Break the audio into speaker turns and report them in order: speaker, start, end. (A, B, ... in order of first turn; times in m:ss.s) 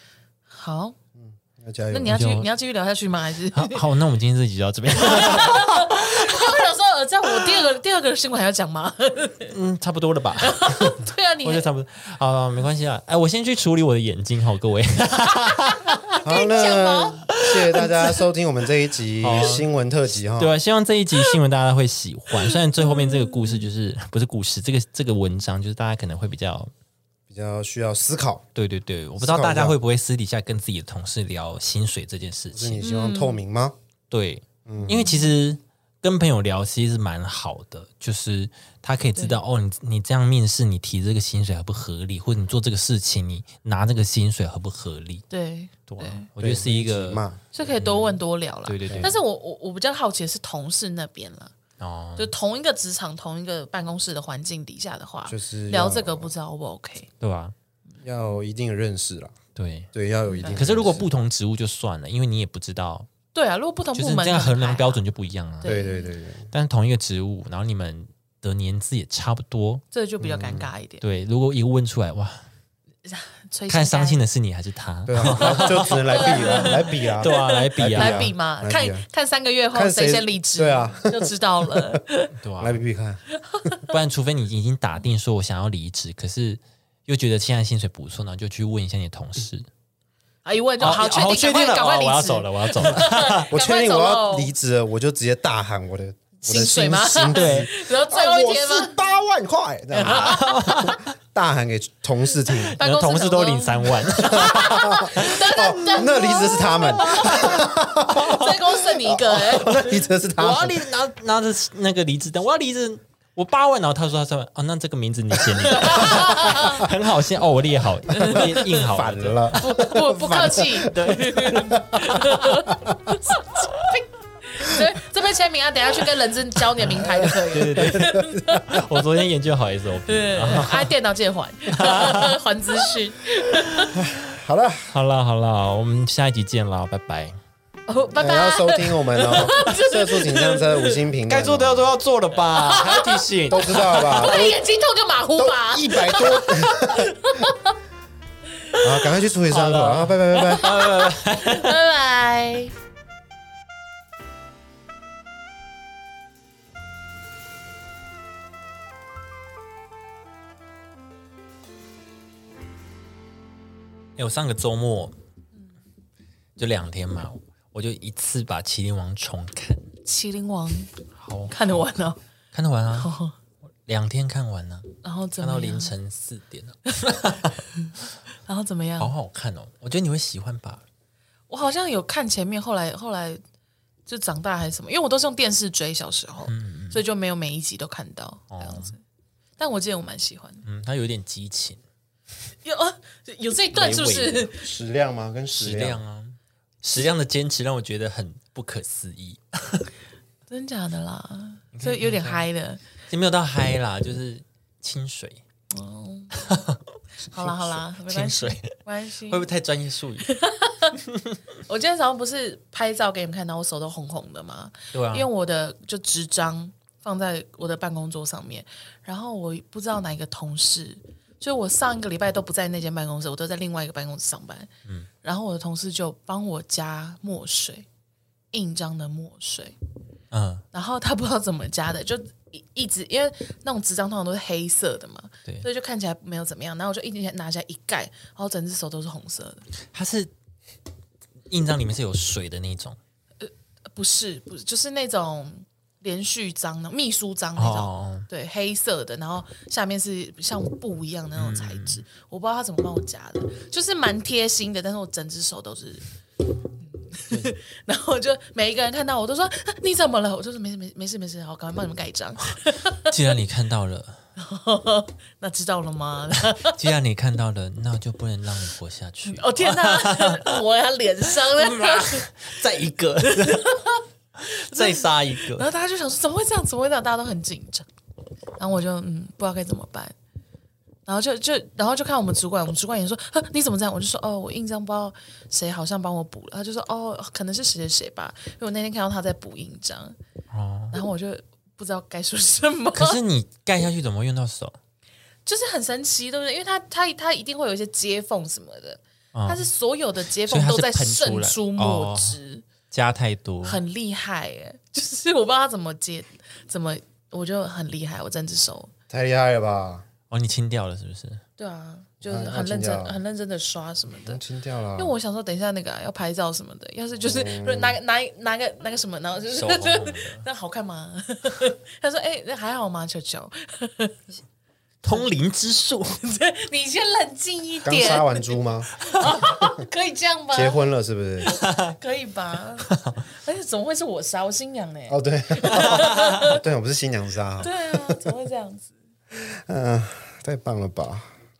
0:00.5-0:01.0 A
0:01.2-0:02.2 B
0:01.9-0:03.8 A
0:02.1-0:02.5 C
0:03.5-0:06.5 C
0:05.0-0:09.5 A
0:09.4-0:16.2 C
0:10.4-0:11.7 A
0:16.1-0:17.9 A
0:16.2-0:20.5 B
0:19.2-0:19.7 C
0:20.4-0:26.7 C
0:22.4-0:23.6 A
0:27.3-0:28.4 B
0:28.5-0:32.8 C
0:29.2-0:29.8 B
0:32.5-0:33.8 B
0:32.8-0:33.4 A
0:34.1-0:45.2 C
0:34.6-0:35.0 B
0:34.8-0:35.3 A
0:45.3-0:46.3 A
0:45.9-0:49.2 C
0:46.4-0:47.4 B
0:47.5-0:51.5 A
0:51.8-0:52.3 C
0:52.2-0:57.1 A
0:55.3-0:56.3 B
0:57.2-0:57.5 C
0:58.0-0:59.4 B
0:59.5-0:59.9 C
0:59.9-1:01.0 B
1:00.3-1:00.7 A
1:00.5-1:03.1 C
1:03.3-1:05.0 A
1:03.9-1:05.8 C
1:05.6-1:06.1 A
1:05.6-1:06.5 B
1:06.5-1:09.8 C
1:09.9-1:11.0 A
1:10.2-1:10.7 B
1:11.0-1:12.4 C
1:13.0-1:14.2 A
1:13.7-1:18.3 C
1:15.0-1:19.0 B
1:15.3-1:22.3 A
1:19.7-1:22.0 B
1:22.4-1:22.8 C
1:22.6-1:23.2 B
1:23.3-1:23.9 A
1:23.9-1:29.7 C
1:30.4-1:34.5 A
1:30.8-1:33.5 C
1:33.5-1:42.7 B
1:36.4-1:39.0 A
1:37.3-1:37.7 C
1:39.9-1:41.0 A
1:40.0-1:41.1 C
1:42.8-1:46.3 C
1:42.8-1:50.0 A
1:44.3-1:50.8 B
1:46.9-1:48.5 C
1:50.4-1:59.8 C
1:55.7-1:56.9 A
1:56.0-1:56.9 B
1:58.1-2:03.1 B
1:59.6-2:09.0 A
2:00.8-2:01.6 C
2:06.9-2:10.9 C
2:07.0-2:08.5 B
2:10.1-2:13.9 A
2:10.5-2:10.8 B
2:11.7-2:12.4 C
2:13.9-2:14.9 B
2:14.9-2:17.4 C
2:17.9-2:21.0 A
2:18.1-2:21.9 B
2:21.3-2:24.4 C
2:22.5-2:27.7 A
2:23.5-2:24.6 B
2:25.4-2:27.5 B
2:28.7-2:29.2 A
2:28.8-2:30.8 B
2:29.5-2:31.8 C
2:30.4-2:32.7 A
2:44.2-2:45.2 C
2:46.6-2:49.9 C
2:50.0-2:50.9 A
2:51.2-2:51.9 C
2:51.5-2:52.2 A
2:52.5-2:53.1 C
2:52.9-2:53.4 A
2:53.8-2:57.6 C
2:55.0-2:55.9 A
2:57.6-2:57.9 A
2:58.4-2:59.1 A
2:59.0-3:00.8 C
3:01.5-3:03.4 A
3:04.1-3:09.0 A
3:06.4-3:07.0 C
3:08.5-3:08.9 C
3:09.6-3:10.6 A
3:10.6-3:11.8 C
3:12.6-3:14.7 A
3:13.7-3:14.5 C
3:14.6-3:16.0 B
3:15.5-3:19.9 C
3:20.5-3:22.8 A
3:21.7-3:22.5 C
3:23.1-3:25.4 C
3:25.7-3:26.3 A
3:26.3-3:26.8 C
3:27.3-3:29.4 A
3:27.4-3:30.3 C
3:30.2-3:31.0 A
3:31.0-3:31.4 C
3:31.7-3:44.7 A
3:34.9-3:35.3 C
3:45.2-3:47.8 A
3:48.5-3:49.7 A
3:50.3-3:50.6 C
3:50.7-3:59.6 A
3:59.9-4:00.3 C
4:01.5-4:03.0 C
4:03.4-4:16.1 A
4:07.6-4:08.3 C
4:11.3-4:12.0 C
4:17.0-4:23.1 A
4:17.3-4:17.6 C
4:23.1-4:24.2 C
4:24.4-4:26.8 A
4:26.4-4:30.6 C
4:29.3-4:32.3 A
4:31.4-4:33.7 C
4:33.2-4:37.9 A
4:34.4-4:35.7 C
4:38.6-4:40.1 A
4:41.1-4:50.2 A
4:50.5-4:51.0 C
4:50.9-4:53.2 A
4:52.9-4:54.8 C
4:55.4-5:02.6 A
4:59.3-4:59.6 C
5:00.4-5:02.4 C
5:02.9-5:03.8 C
5:03.6-5:08.9 A
5:09.1-5:10.0 B
5:10.3-5:11.4 C
5:11.6-5:14.4 A
5:12.2-5:13.2 B
5:14.2-5:15.2 B
5:15.0-5:24.2 A
5:17.2-5:18.0 B
5:19.5-5:20.4 C
5:25.0-5:26.2 C
5:26.2-5:30.8 A
5:27.8-5:29.8 B
5:30.5-5:31.6 B
5:31.5-5:31.9 C
5:32.0-5:36.6 A
5:32.9-5:33.2 C
5:35.1-5:38.3 B
5:35.7-5:36.5 C
5:37.6-5:38.9 A
5:39.3-5:41.3 B